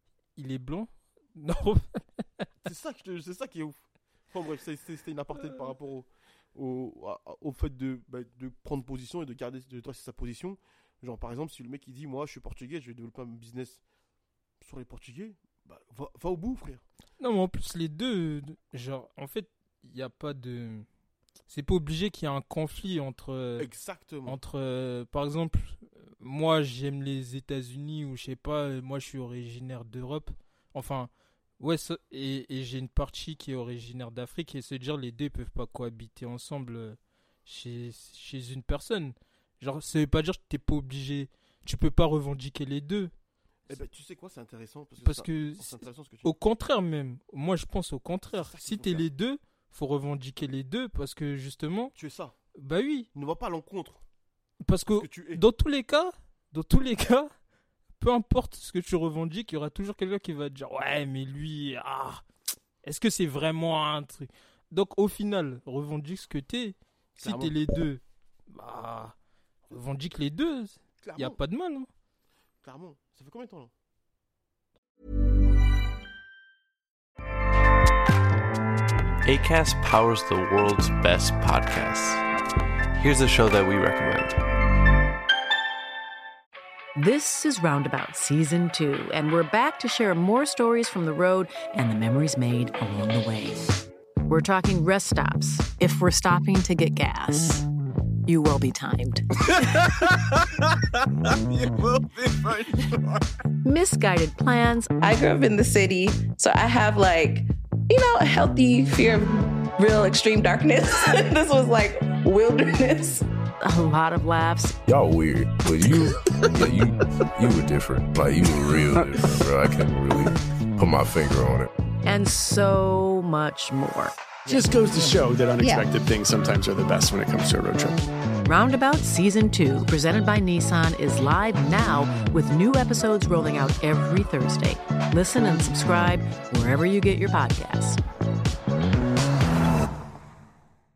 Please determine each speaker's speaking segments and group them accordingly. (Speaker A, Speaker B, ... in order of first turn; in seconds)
Speaker A: 0.3-2.5, 17.2-20.9, 21.5-23.7, 24.3-43.1, 45.0-51.9, 52.5-53.1, 54.6-57.3, 58.0-62.2, 62.8-69.1, 69.7-71.9
Speaker B: 2.6-13.8, 14.6-16.8, 23.6-24.4, 43.7-46.3, 48.3-49.1, 52.0-52.4, 53.1-54.0, 54.9-55.4, 67.2-67.5, 71.0-71.4, 72.6-73.7, 99.5-100.2, 101.5-102.8
Speaker C: 79.2-82.2, 83.0-84.4
Speaker D: 87.0-93.7, 94.3-97.6, 98.3-99.2, 103.6-104.9, 113.6-114.8, 122.0-124.1, 128.4-138.0
Speaker E: 105.0-113.2, 125.6-125.9
Speaker F: 114.9-121.7
Speaker G: 118.9-119.2, 124.5-128.0